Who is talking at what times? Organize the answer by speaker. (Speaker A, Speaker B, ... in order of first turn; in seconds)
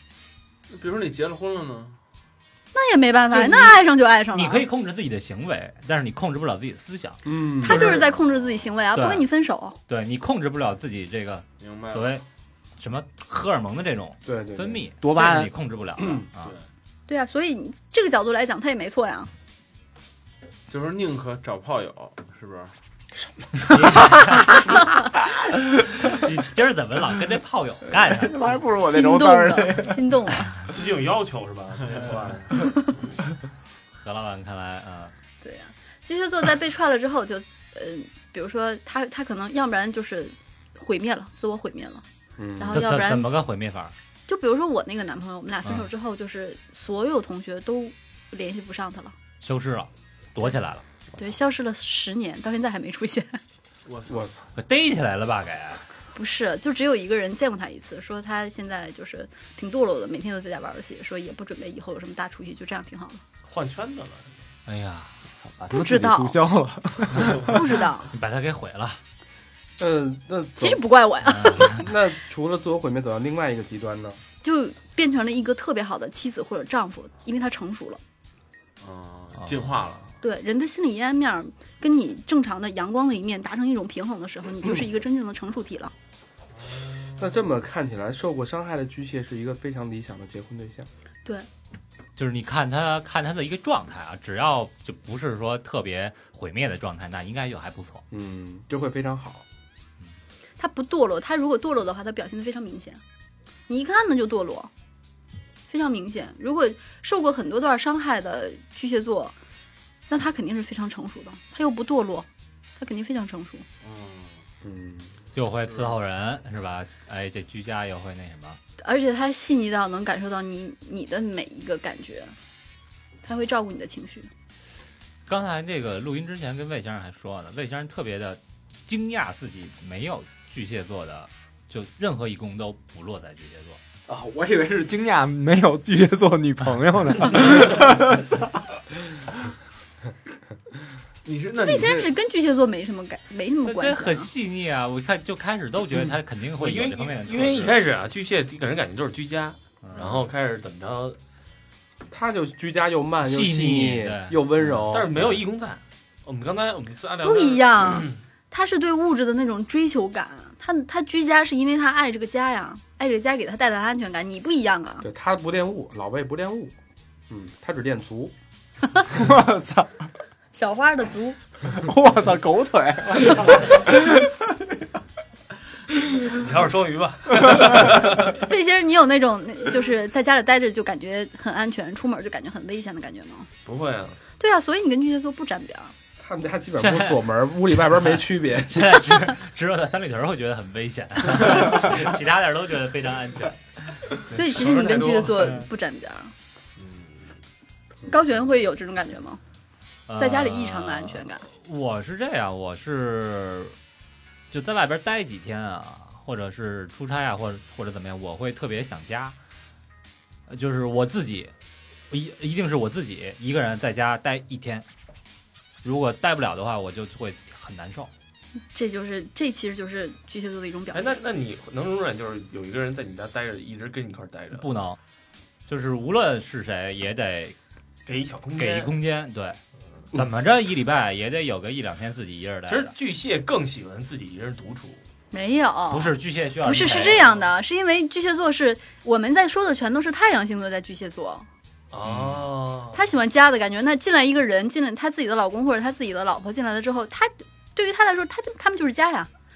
Speaker A: 0.7-2.0, 11.6-12.1, 20.7-22.7, 53.9-54.4, 78.8-80.2, 113.8-114.4, 115.7-115.9, 141.2-142.1
Speaker B: 2.7-4.7, 7.6-9.8, 17.1-19.3, 28.8-30.5, 35.4-42.0, 42.6-43.3, 44.3-49.1, 51.2-53.4, 56.1-63.2, 65.7-66.4, 67.5-68.1, 70.6-71.8, 74.4-78.0, 80.2-85.9, 100.6-103.0, 103.7-104.7, 105.7-109.3, 110.1-112.3, 112.8-113.7, 118.8-122.3, 123.2-124.3, 141.6-144.3, 157.2-165.1, 170.5-171.4, 178.3-183.5, 184.4-185.9, 194.3-196.3, 198.1-199.4, 200.2-201.4, 218.7-221.2, 235.3-241.5, 242.9-249.3
Speaker C: 3.3-8.2, 8.9-9.3, 9.9-12.2, 12.8-16.5, 23.7-24.7, 26.0-28.3, 33.9-35.1, 42.7-43.9, 49.4-50.8, 54.5-55.8, 64.7-65.1, 68.1-69.0, 71.3-71.8, 79.4-79.8, 92.2-98.0, 115.3-118.6, 125.3-133.8, 143.6-147.8, 149.8-150.2, 153.2-155.4, 186.8-193.6, 200.1-203.7, 204.5-209.3, 210.5-211.5, 212.1-214.9, 215.8-218.1, 224.5-225.0, 225.7-227.6, 228.6-229.6, 230.1-232.9, 235.9-237.3, 242.0-242.5
Speaker D: 7.2-8.0, 14.2-14.8, 16.0-16.2, 42.4-42.8, 54.1-54.3, 69.8-70.8, 71.6-74.2, 87.2-90.9, 98.1-99.4, 114.6-115.1, 152.1-155.1, 165.0-166.7, 167.3-168.3, 186.2-188.9
Speaker E: 15.0-15.5, 28.1-30.1, 65.4-67.8, 134.1-138.6, 169.1-169.9, 171.7-174.4
Speaker F: 30.7-32.5, 63.4-64.4, 146.5-151.2, 154.9-158.2, 176.3-178.3, 183.6-184.2, 194.3-195.6, 220.9-224.7, 228.1-228.9, 232.7-235.0, 236.8-237.4, 241.9-243.0